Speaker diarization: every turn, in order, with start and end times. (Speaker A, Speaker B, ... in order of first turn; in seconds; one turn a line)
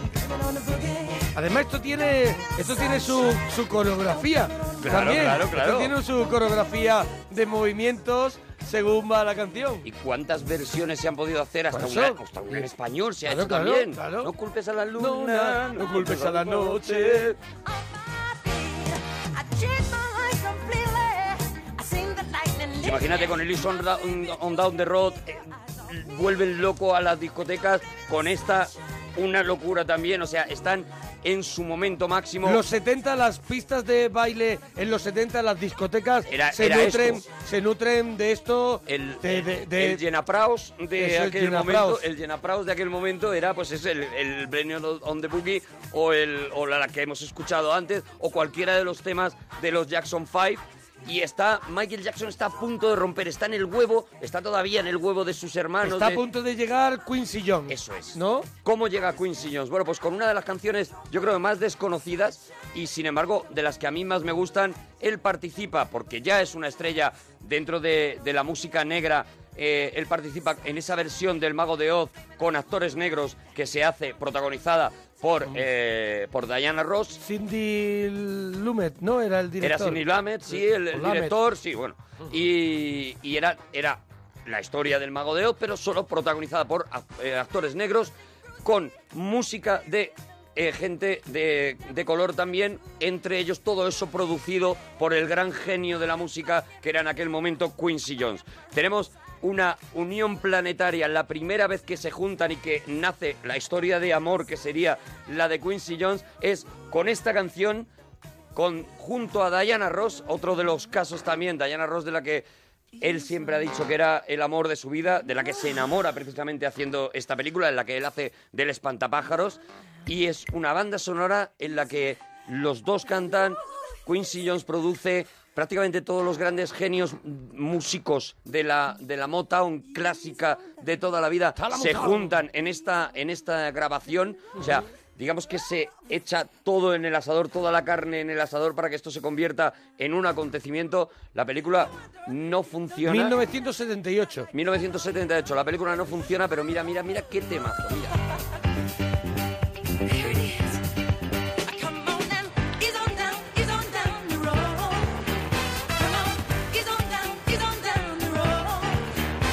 Speaker A: 0.1-1.4
Speaker B: 1.3-9.8
Speaker A: 2.4-4.8
Speaker C: 4.8-5.9
Speaker C: 9.8-17.4
Speaker B: 11.7-12.7
Speaker B: 13.2-14.3
Speaker B: 15.0-17.3
Speaker A: 17.5-23.5
Speaker C: 22.8-32.6
Speaker B: 32.4-40.0
Speaker C: 36.3-37.2
Speaker C: 38.9-56.2
Speaker B: 41.0-42.0
Speaker B: 55.8-58.5
Speaker C: 57.7-77.2
Speaker B: 77.2-80.0
Speaker C: 79.6-88.1
Speaker B: 80.6-81.3
Speaker C: 88.6-107.9
Speaker C: 108.5-112.5
Speaker C: 113.0-143.3
Speaker B: 131.5-132.4
Speaker B: 143.1-144.5
Speaker C: 144.5-148.1
Speaker A: 150.0-150.8
Speaker A: 151.6-155.3
Speaker A: 155.9-159.1